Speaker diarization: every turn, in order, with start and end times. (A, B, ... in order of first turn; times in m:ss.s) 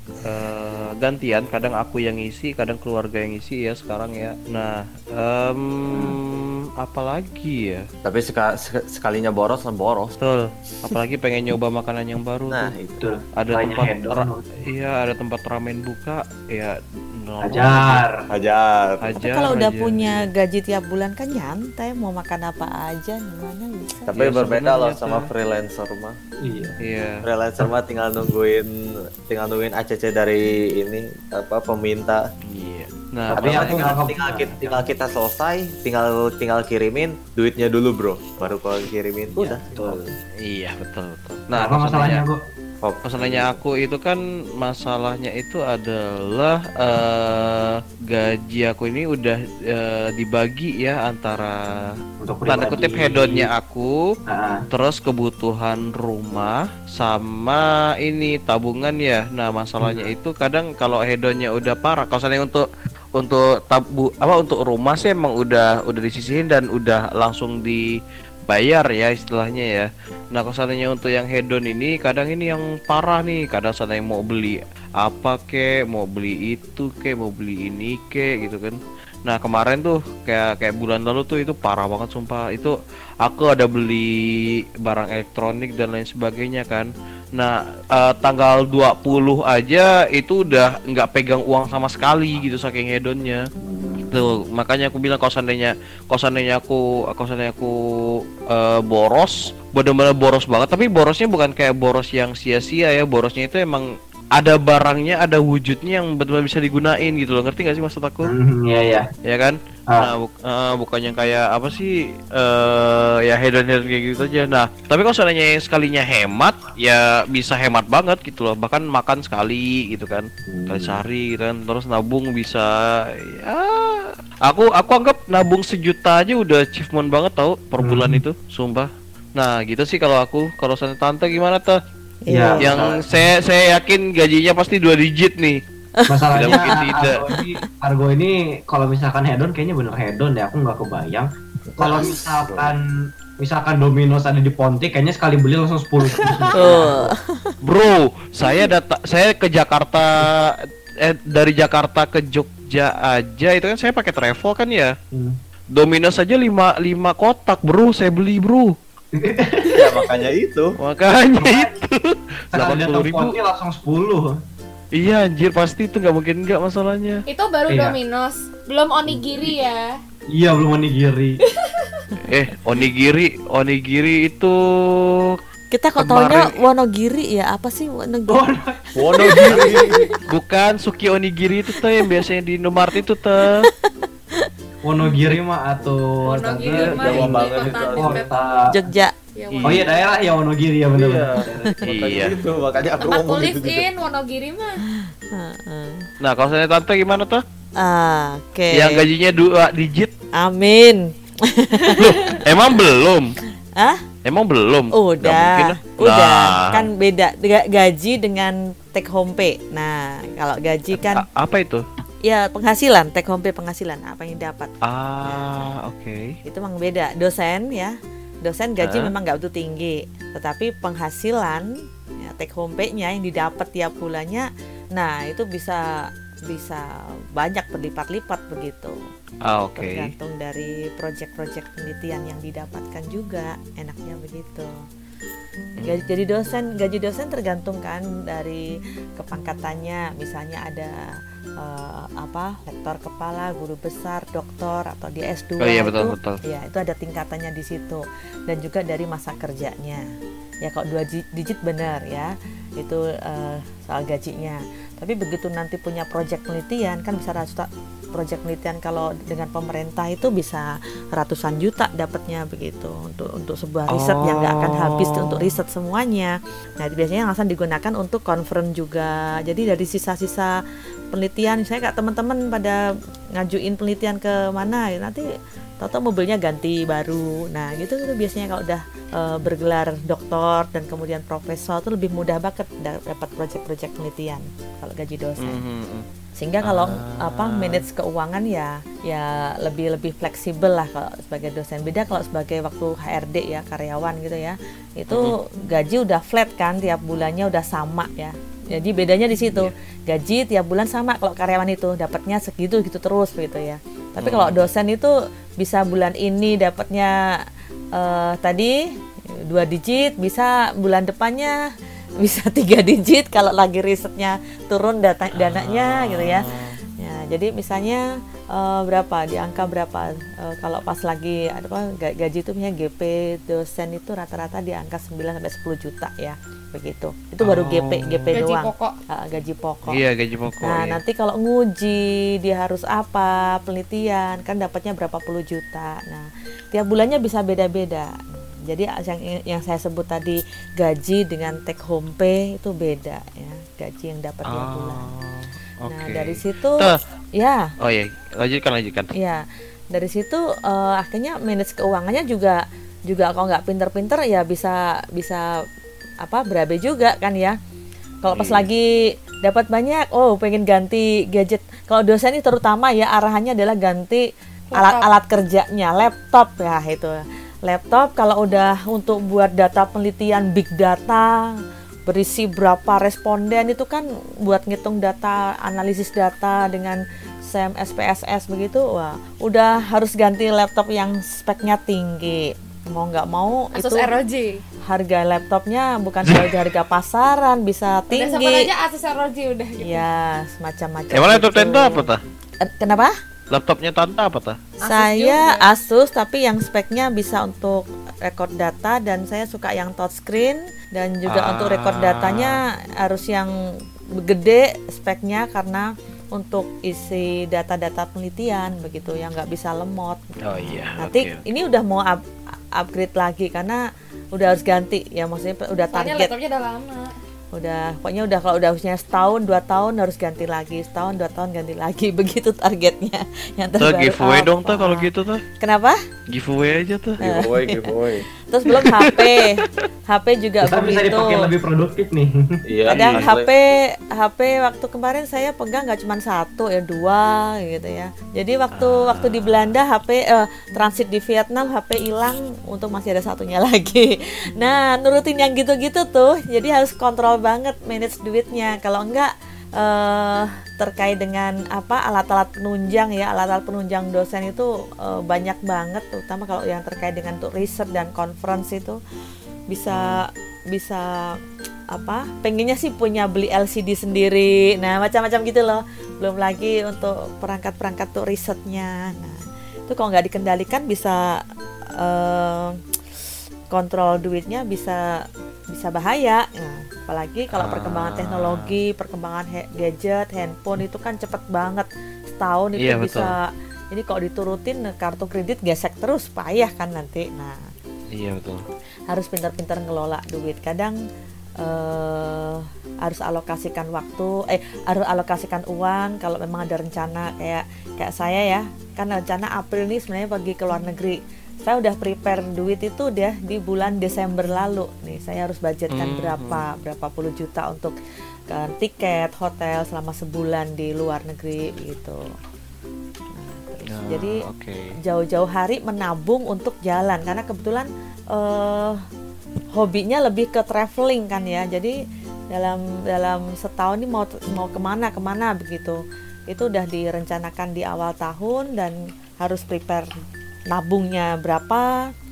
0:00.2-0:07.8 A
0:05.9-0:06.2 B
0:08.0-0:10.1 C
0:10.2-0:12.7 A
0:12.5-0:13.0 C
0:13.0-0:14.4 B
0:13.4-0:18.0 A
0:17.4-0:18.2 B
0:18.3-0:19.2 C
0:19.0-0:20.2 A
0:19.2-0:24.1 D
0:24.1-0:26.2 C
0:24.1-0:25.3 A
0:26.4-0:26.8 B
0:26.8-0:27.2 A
0:27.2-0:28.7 C
0:29.3-0:32.2 C
0:32.5-0:34.0 A
0:33.3-0:40.0 C
0:33.3-0:34.8 B
0:39.4-0:40.1 B
0:40.4-0:42.2 A
0:41.5-0:42.4 B
0:42.8-0:43.6 C
0:43.0-0:51.6 A
0:52.2-0:53.5 B
0:52.5-0:53.9 A
0:54.3-0:54.6 B
0:54.7-1:07.9 A
0:59.8-1:00.1 B
1:08.5-1:33.4 A
1:33.6-1:34.2 B
1:34.1-1:37.7 A
1:38.5-1:48.3 A
1:48.2-1:49.0 B
1:49.2-2:02.7 A
2:00.5-2:01.0 B
2:03.2-2:11.8 A
2:07.8-2:08.2 B
2:12.2-2:12.8 D
2:12.3-2:13.3 B
2:12.6-2:15.6 A
2:16.0-2:17.6 D
2:16.1-2:22.8 B
2:16.3-2:17.1 A
2:21.8-2:22.7 C
2:23.4-2:27.1 B
2:26.5-2:26.9 A
2:26.5-2:27.5 D
2:27.6-2:34.9 A
2:35.1-2:35.4 B
2:35.7-2:38.8 A
2:39.1-2:40.0 B
2:39.7-2:40.8 C
2:40.8-2:43.3 A
2:41.4-2:41.7 B
2:42.5-2:44.3 B
2:45.0-2:47.2 A
2:47.3-2:49.8 E
2:47.7-2:48.0 B
2:49.1-2:49.4 B
2:50.3-2:51.4 B
2:51.6-2:52.0 E
2:52.2-2:54.6 A
2:55.7-2:58.4 D
2:56.0-2:56.5 A
2:58.3-2:59.4 B
2:59.0-3:00.1 C
2:59.1-2:59.7 D
3:00.3-3:03.6 A
3:03.4-3:04.5 D
3:04.8-3:08.7 B
3:06.2-3:08.4 E
3:06.7-3:08.2 C
3:08.7-3:09.1 D
3:09.4-3:09.9 E
3:09.5-3:09.8 A
3:09.6-3:11.8 B
3:10.9-3:13.8 C
3:11.8-3:12.3 A
3:13.0-3:14.8 E
3:15.3-3:16.1 D
3:16.2-3:17.4 A
3:17.8-3:19.0 D
3:18.7-3:20.1 A
3:20.4-3:22.5 D
3:22.0-3:23.3 A
3:23.8-3:24.0 D
3:24.2-3:26.8 A
3:24.9-3:31.2 D
3:30.9-3:31.8 A
3:32.2-3:34.7 D
3:34.8-3:36.2 A
3:36.4-3:49.0 D
3:38.8-3:39.1 A
3:49.4-3:50.1 A
3:49.8-3:54.7 D
3:55.8-3:58.7 D
3:59.2-4:01.0 D
4:01.6-4:10.0 D
4:05.6-4:06.4 A
4:10.6-4:30.5 D
4:23.9-4:25.5 A
4:31.1-4:32.8 D
4:33.4-4:35.2 D
4:35.8-4:45.6 D
4:45.4-4:46.0 A
4:46.4-5:07.4 D
4:46.6-4:47.8 A
5:04.2-5:04.7 A
5:07.9-5:08.8 D
5:09.5-5:11.6 D
5:12.2-5:16.5 D
5:15.3-5:16.8 A
5:17.0-5:30.0 D
5:27.4-5:28.4 A
5:28.3-5:28.9 E
5:29.9-5:31.0 A
5:30.6-5:45.1 D
5:44.5-5:47.0 A
5:45.9-5:47.7 D
5:47.8-5:49.1 A
5:49.2-5:55.5 D
5:56.2-5:57.6 D
5:58.2-6:11.5 D
5:58.3-5:58.7 A
6:04.7-6:05.1 E
6:12.1-6:24.1 D
6:23.7-6:24.6 E
6:24.8-6:28.6 D
6:26.2-6:26.5 A
6:28.1-6:30.0 E
6:29.8-6:32.1 D
6:31.1-6:32.2 A
6:32.6-6:33.1 D
6:33.5-6:34.6 A
6:34.8-6:35.6 E
6:34.8-6:52.2 D
6:41.3-6:42.6 A
6:50.4-6:51.4 A
6:52.7-6:53.8 D
6:54.3-6:56.3 D
6:55.9-6:57.1 E
6:57.5-7:05.1 D
7:03.8-7:05.4 A
7:05.6-7:06.0 D
7:06.3-7:07.2 A
7:07.2-7:08.2 C
7:07.2-7:11.5 D
7:08.6-7:09.4 A
7:10.6-7:12.4 B
7:12.7-7:13.5 C
7:12.9-7:13.3 A
7:12.9-7:39.0 D
7:18.7-7:19.8 A
7:39.7-7:41.4 D
7:39.9-7:40.2 A
7:41.9-7:51.4 D
7:52.0-7:52.8 D
7:53.7-8:07.6 D
7:57.5-7:58.6 A
8:02.8-8:03.3 A
8:08.1-8:08.6 A
8:09.1-8:11.0 D
8:11.6-8:27.9 D
8:25.9-8:26.6 A
8:28.5-8:32.2 D
8:33.3-8:34.4 D
8:33.9-8:34.9 A
8:35.1-8:39.0 D
8:39.7-8:42.0 D
8:42.5-8:50.1 D
8:50.7-8:52.1 D